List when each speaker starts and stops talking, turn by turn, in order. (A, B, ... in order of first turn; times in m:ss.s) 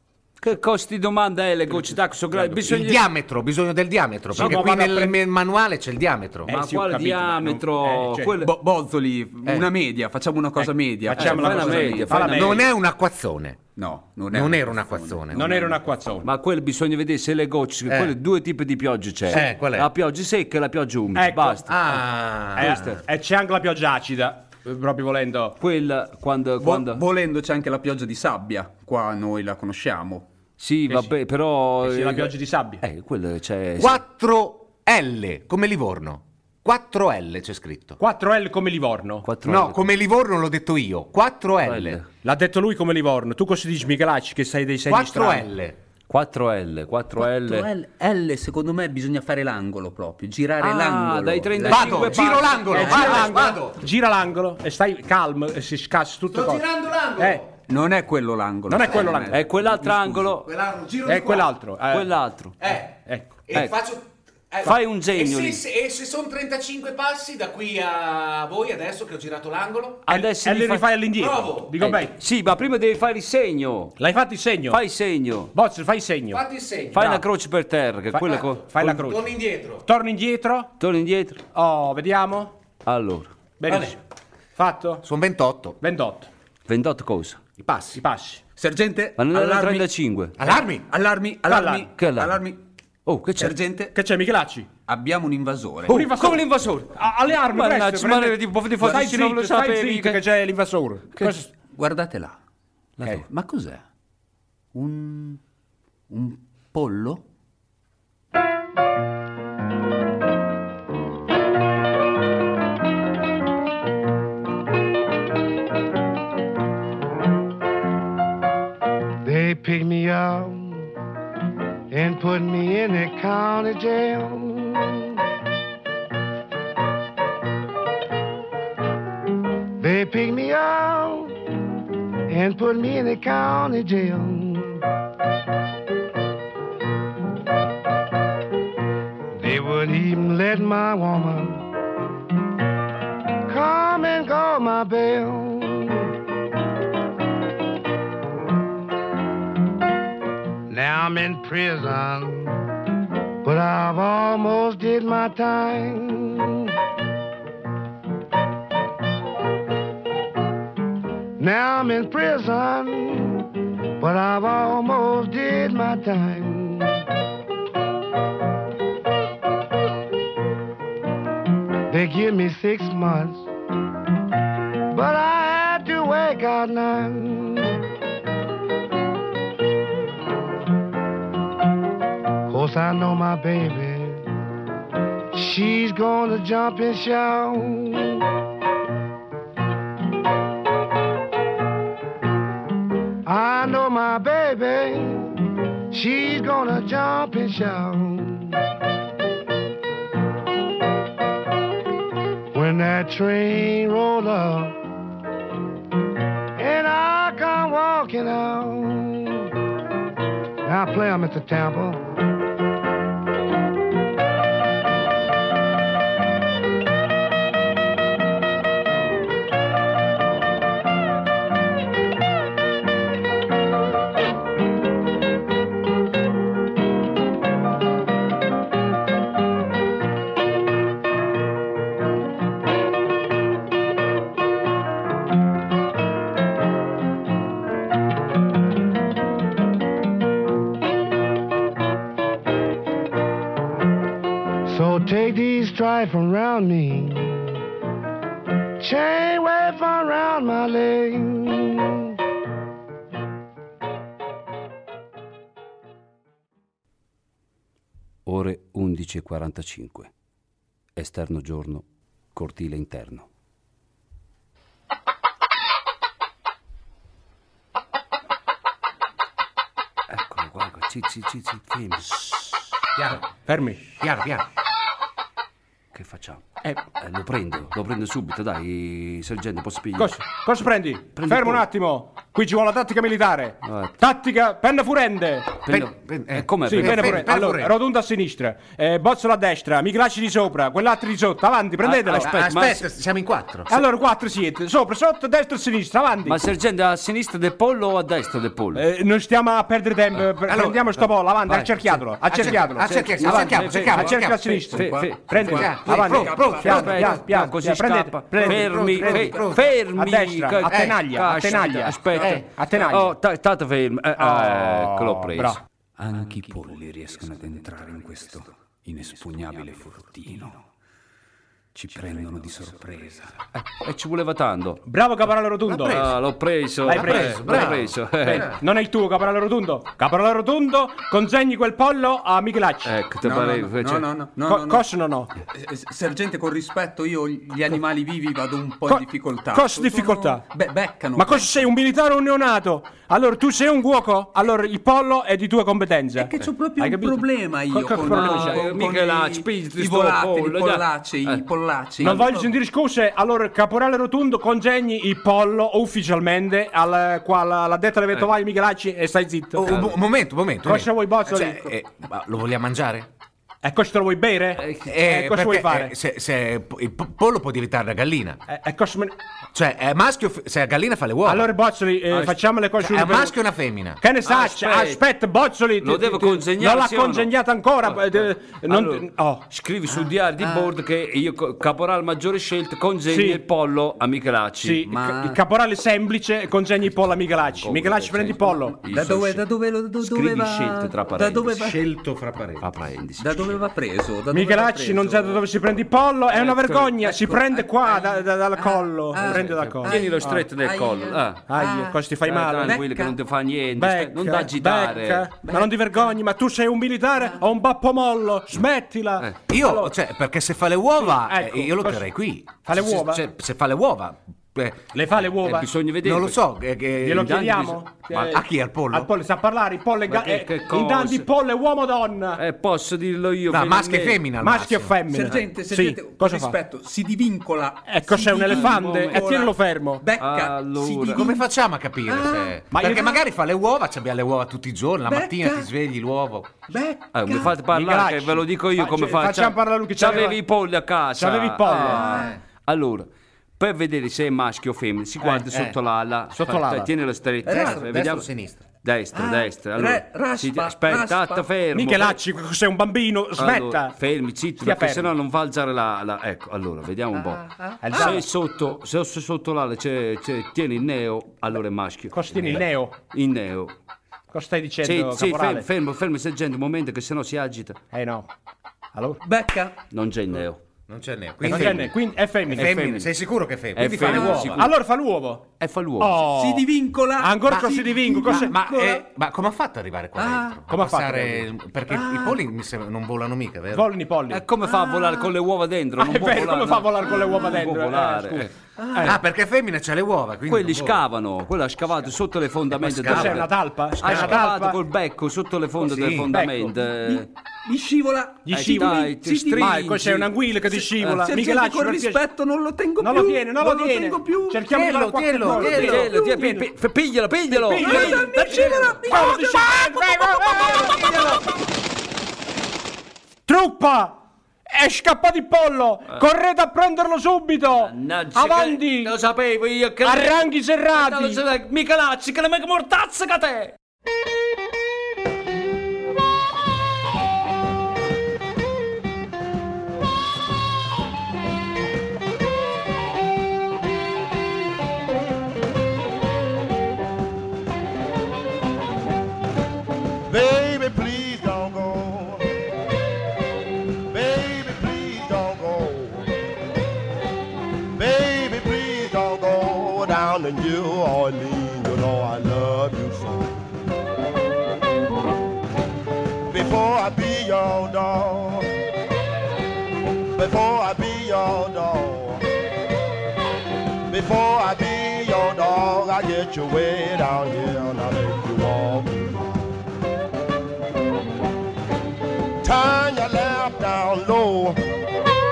0:00.4-0:03.0 A
0:02.3-0:02.6 B
0:02.7-0:06.5 C
0:04.3-0:05.2 B
0:04.4-0:04.6 A
0:06.5-0:08.3 B
0:06.5-0:08.5 A
0:08.4-0:12.5 D
0:10.6-0:12.6 B
0:11.1-0:12.6 A
0:12.2-0:13.6 C
0:13.8-0:15.8 D
0:14.3-0:15.6 C
0:15.3-0:16.3 B
0:16.2-0:22.0 A
0:17.9-0:18.2 C
0:19.3-0:19.9 C
0:21.2-0:22.0 B
0:21.7-0:22.9 C
0:22.6-0:23.0 A
0:22.6-0:25.6 B
0:25.6-0:27.0 A
0:26.6-0:30.3 D
0:30.6-0:34.0 A
0:31.8-0:32.8 B
0:33.8-0:38.0 C
0:38.0-0:39.3 B
0:39.2-0:39.8 A
0:39.4-0:42.0 C
0:41.6-0:42.1 A
0:42.2-0:45.5 B
0:44.9-0:45.8 C
0:46.1-0:47.7 A
0:47.2-0:53.2 D
0:50.6-0:53.1 A
0:51.6-0:53.8 C
0:52.7-0:56.6 B
0:56.3-0:57.5 C
0:57.2-0:57.4 B
0:57.7-1:00.3 D
0:58.7-0:59.4 B
0:58.9-0:59.2 C
0:59.3-1:00.5 A
1:00.4-1:01.5 C
1:01.1-1:02.1 B
1:01.9-1:02.6 A
1:02.6-1:10.1 C
1:02.7-1:03.3 B
1:04.6-1:05.6 A
1:10.1-1:10.9 A
1:10.1-1:12.1 B
1:11.2-1:11.8 C
1:11.8-1:14.0 A
1:14.0-1:14.8 B
1:14.7-1:15.5 A
1:15.5-1:16.4 B
1:16.3-1:17.2 C
1:16.9-1:18.6 A
1:17.0-1:17.2 B
1:18.2-1:19.9 C
1:18.3-1:19.3 B
1:19.8-1:20.7 B
1:20.8-1:21.4 A
1:21.5-1:22.6 B
1:22.8-1:23.3 A
1:23.6-1:24.0 B
1:23.7-1:24.0 C
1:24.6-1:25.0 B
1:25.0-1:25.8 C
1:25.8-1:26.3 B
1:26.7-1:27.4 A
1:27.6-1:28.4 B
1:28.6-1:29.9 D
1:29.2-1:30.4 A
1:30.4-1:30.9 C
1:30.4-1:32.6 D
1:31.5-1:31.9 B
1:32.0-1:32.4 A
1:33.1-1:33.6 A
1:33.4-1:33.9 D
1:33.9-1:34.7 B
1:34.9-1:36.1 D
1:35.9-1:41.5 B
1:35.9-1:40.2 A
1:41.7-1:42.4 D
1:43.0-1:43.2 A
1:43.4-1:43.8 E
1:44.7-1:45.4 D
1:46.1-1:47.2 D
1:59.2-2:00.9 F
2:01.9-2:05.2 F
2:09.8-2:11.4 F
2:12.3-2:14.8 F
2:19.4-2:21.6 F
2:23.5-2:26.1 F
2:30.7-2:32.6 F
2:33.4-2:36.7 F
2:41.4-2:43.5 F
2:44.0-2:47.0 F
2:51.9-2:53.5 F
2:54.9-2:57.8 F
3:02.5-3:04.2 F
3:05.3-3:08.2 F
3:13.3-3:15.3 F
3:15.9-3:18.6 F
3:22.5-3:24.8 F
3:26.6-3:29.5 F
3:30.6-3:32.0 F
4:04.7-4:07.5 F
4:08.8-4:12.1 F
4:18.3-4:20.1 A
4:21.0-4:23.3 A
4:30.1-4:32.4 A
4:33.0-4:33.2 C
4:33.4-4:33.8 B
4:34.0-4:34.4 C
4:35.9-4:40.2 A
4:40.0-4:45.6 B
4:41.2-4:41.6 A
4:43.6-4:44.0 A
4:45.7-4:47.3 A
4:45.7-4:47.8 C
4:46.7-4:52.3 B
4:51.8-4:52.9 A
4:52.1-4:53.8 C
4:53.7-4:56.4 B
4:56.2-4:58.8 A
4:58.8-5:13.1 B
5:00.4-5:04.7 C
5:02.4-5:05.6 A
5:04.7-5:07.2 D
5:05.4-5:07.2 C
5:06.4-5:15.6 A
5:08.4-5:09.8 C
5:10.7-5:11.0 C
5:12.2-5:12.5 C
5:14.2-5:15.6 B
5:16.0-5:20.6 E
5:21.8-5:23.4 E
5:23.5-5:24.8 A
5:24.9-5:26.0 B
5:25.6-5:26.2 C
5:25.9-5:28.6 A
5:26.8-5:32.9 B
5:26.9-5:28.6 C
5:32.8-5:34.1 A
5:33.2-5:34.9 D
5:34.4-5:35.3 B
5:35.5-5:41.6 D
5:38.9-5:40.4 B
5:41.2-5:48.7 B
5:46.2-5:52.6 D
5:48.0-5:51.4 A
5:52.0-5:59.8 B
5:59.5-6:03.1 C
5:59.7-5:59.9 A
6:00.6-6:01.7 B
6:03.6-6:05.9 B
6:04.6-6:04.9 A
6:04.8-6:08.4 C
6:08.5-6:09.1 B
6:09.5-6:11.5 C
6:11.2-6:13.4 B
6:12.1-6:12.4 A
6:12.8-6:14.0 C
6:14.0-6:19.4 B
6:14.2-6:15.0 A
6:15.8-6:17.3 A
6:17.8-6:24.9 A
6:20.4-6:20.6 D
6:23.1-6:23.4 B
6:24.6-6:28.8 B
6:24.9-6:25.4 D
6:27.5-6:31.6 A
6:28.8-6:31.8 D
6:31.5-6:32.7 C
6:32.6-6:33.6 A
6:33.2-6:35.4 D
6:34.3-6:40.4 B
6:36.3-6:37.0 A
6:37.0-6:42.0 D
6:39.2-6:41.7 A
6:41.5-6:42.8 B
6:42.2-6:45.3 A
6:42.6-6:43.2 D
6:43.7-6:49.9 B
6:45.4-6:46.2 D
6:47.2-6:47.4 D
6:49.5-6:57.4 C
6:51.0-6:52.0 B
6:52.6-6:53.2 B
6:54.9-6:55.7 B
6:55.4-6:56.4 A
6:57.0-7:02.4 B
6:57.1-6:58.4 A
6:58.1-6:59.1 C
7:00.1-7:01.3 A
7:02.4-7:04.2 A
7:03.5-7:05.0 C
7:04.4-7:06.6 B
7:05.1-7:11.4 D
7:07.9-7:10.0 B
7:08.5-7:09.2 A
7:10.2-7:11.3 A
7:11.1-7:16.5 C
7:12.1-7:12.6 D
7:12.7-7:13.2 B
7:15.1-7:15.7 D
7:16.7-7:17.5 D
7:17.1-7:28.3 A
7:17.6-7:20.4 B
7:21.2-7:22.3 B
7:21.8-7:22.3 D
7:25.2-7:25.6 B
7:26.3-7:26.9 B
7:27.5-7:27.9 D
7:27.5-7:28.6 C
7:28.8-7:32.2 A
7:29.1-7:31.5 D
7:31.7-7:34.0 B
7:33.4-7:43.8 A
7:34.6-7:35.1 B
7:37.2-7:38.2 D
7:37.8-7:38.3 B
7:42.1-7:42.9 B
7:44.3-7:45.7 B
7:44.8-7:47.8 A
7:47.9-7:48.3 B
7:48.9-7:49.2 B
7:49.2-7:49.8 D
7:49.9-7:50.6 A
7:50.9-7:54.7 C
7:51.4-7:52.9 B
7:51.5-7:51.8 A
7:52.6-7:53.1 A
7:53.7-7:54.7 A
7:54.1-7:56.7 B
7:54.1-7:54.5 D
7:55.6-7:56.2 A
7:56.3-7:59.0 D
7:57.2-7:58.5 B
7:58.2-8:03.9 C
8:00.2-8:00.6 D
8:00.7-8:01.4 B
8:01.9-8:02.4 D
8:03.7-8:04.4 B
8:04.3-8:08.5 A
8:04.7-8:05.3 D
8:06.0-8:09.2 B
8:07.0-8:07.6 D
8:08.8-8:09.2 D
8:09.0-8:11.0 C
8:10.5-8:17.3 A
8:12.9-8:13.4 C
8:13.0-8:14.8 B
8:14.0-8:14.4 C
8:15.8-8:16.3 C
8:16.3-8:16.7 B
8:17.0-8:19.8 D
8:18.5-8:22.2 B
8:18.5-8:20.3 A
8:20.6-8:24.8 D
8:23.0-8:26.7 B
8:24.7-8:26.1 C
8:25.4-8:26.5 D
8:25.7-8:29.4 A
8:27.5-8:31.4 B
8:27.8-8:31.5 D
8:30.8-8:31.2 A
8:33.5-8:39.2 B
8:37.8-8:43.8 A
8:40.0-8:41.4 B
9:00.3-9:02.4 G
9:04.1-9:06.3 G
9:08.0-9:13.7 G
9:16.5-9:18.7 G
9:20.3-9:22.4 G
9:24.1-9:29.8 G
9:32.6-9:34.8 G